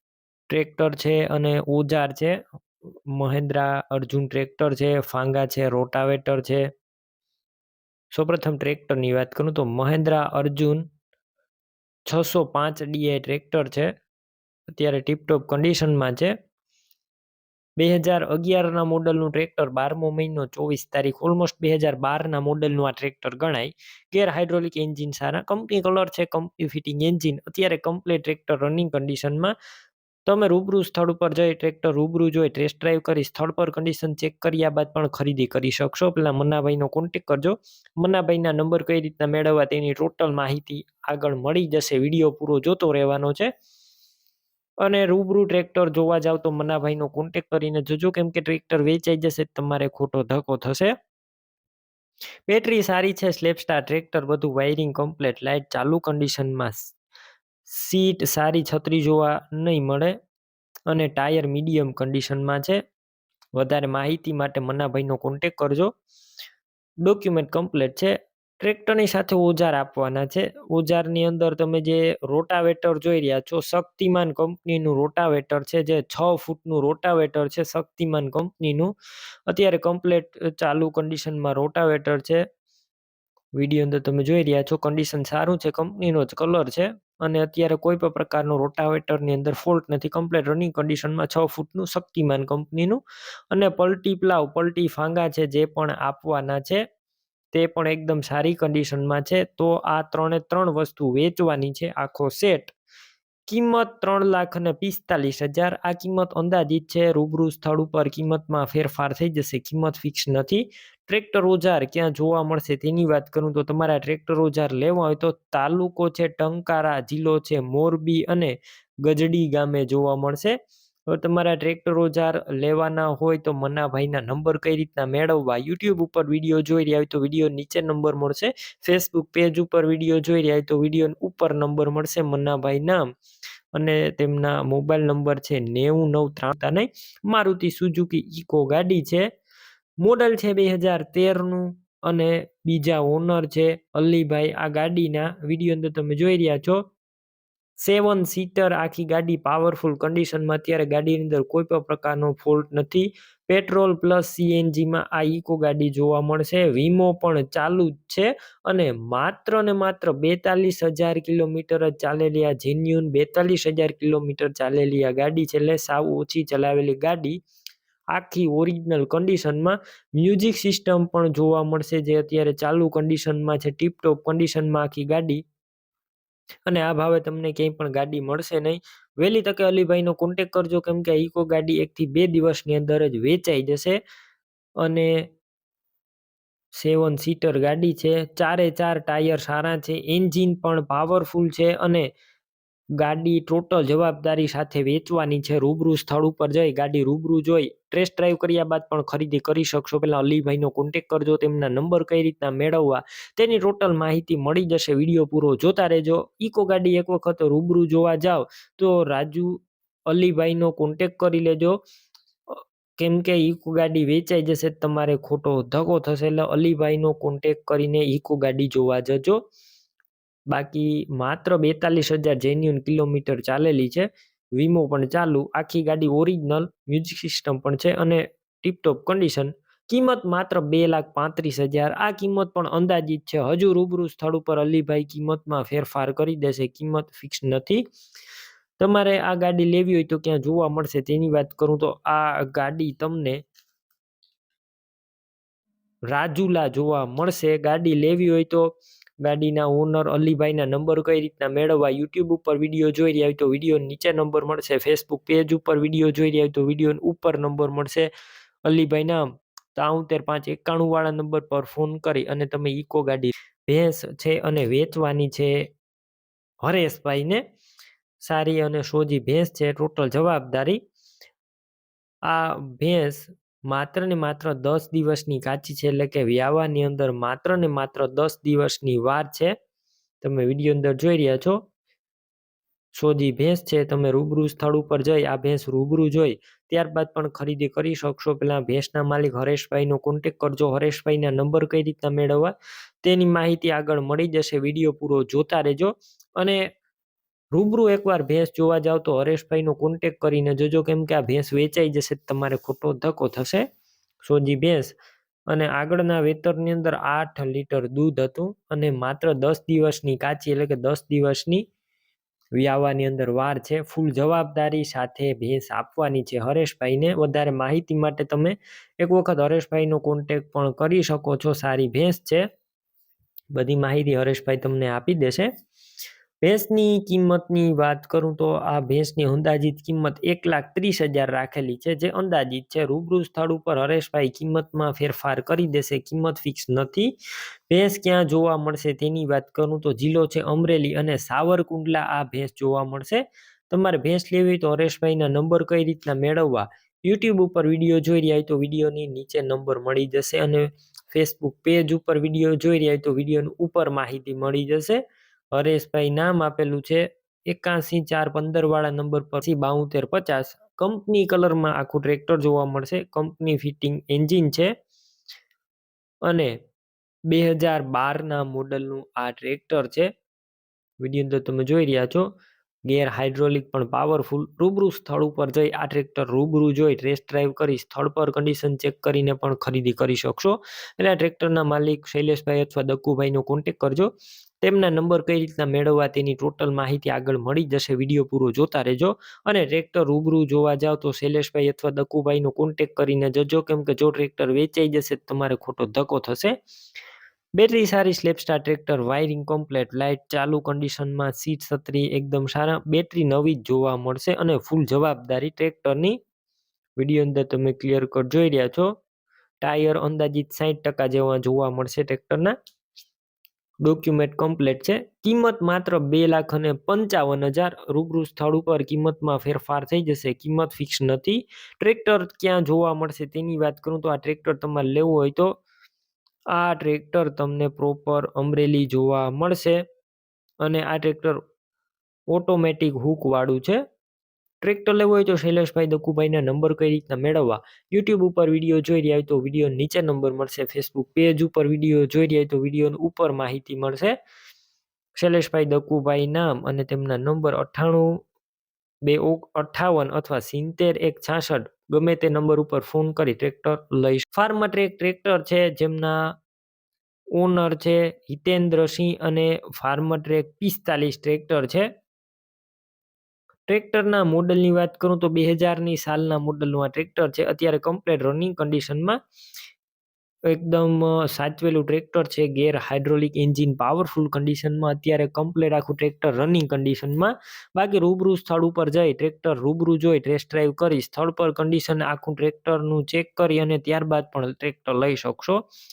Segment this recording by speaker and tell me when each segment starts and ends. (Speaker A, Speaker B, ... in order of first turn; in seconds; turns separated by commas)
Speaker A: 0.5-2.4, Speaker A: 3.1-6.7, Speaker A: 8.1-10.9, Speaker A: 12.1-13.9, Speaker A: 14.7-16.3, Speaker A: 17.8-29.5, Speaker A: 30.3-43.5, Speaker A: 44.8-50.9, Speaker A: 52.5-56.9, Speaker A: 57.7-60.1, Speaker A: 60.9-62.8, Speaker A: 63.6-65.9, Speaker A: 67.0-78.9, Speaker A: 79.5-82.4, Speaker A: 83.6-93.0, Speaker A: 93.5-96.8, Speaker A: 97.5-102.7, Speaker A: 103.5-120.5, Speaker A: 121.1-133.1, Speaker A: 133.7-139.3, Speaker A: 140.0-146.8, Speaker A: 147.8-167.4, Speaker A: 168.1-175.4, Speaker A: 176.7-184.0, Speaker A: 184.8-185.1, Speaker A: 186.8-192.1, Speaker A: 193.0-211.8, Speaker A: 212.5-219.4, Speaker A: 220.5-237.8, Speaker A: 238.8-243.4, Speaker A: 246.1-248.7, Speaker A: 249.2-258.1, Speaker A: 258.7-265.6, Speaker A: 266.6-267.4, Speaker A: 268.2-270.8, Speaker A: 272.3-279.5, Speaker A: 280.2-281.6, Speaker A: 282.9-296.6, Speaker A: 297.5-303.6, Speaker A: 304.3-305.0, Speaker A: 305.5-311.6, Speaker A: 312.6-322.4, Speaker A: 323.6-325.5, Speaker A: 326.4-337.1, Speaker A: 337.7-355.0, Speaker A: 355.5-364.7, Speaker A: 366.3-366.5, Speaker A: 367.3-370.1, Speaker A: 371.0-372.3, Speaker A: 372.9-396.6, Speaker A: 397.6-406.2, Speaker A: 407.0-408.9, Speaker A: 409.6-412.5, Speaker A: 413.8-425.5, Speaker A: 426.5-429.8, Speaker A: 430.6-431.4, Speaker A: 432.3-433.8, Speaker A: 434.6-444.1, Speaker A: 445.2-448.2, Speaker A: 449.1-456.2, Speaker A: 457.4-461.9, Speaker A: 463.7-469.2, Speaker A: 470.5-485.6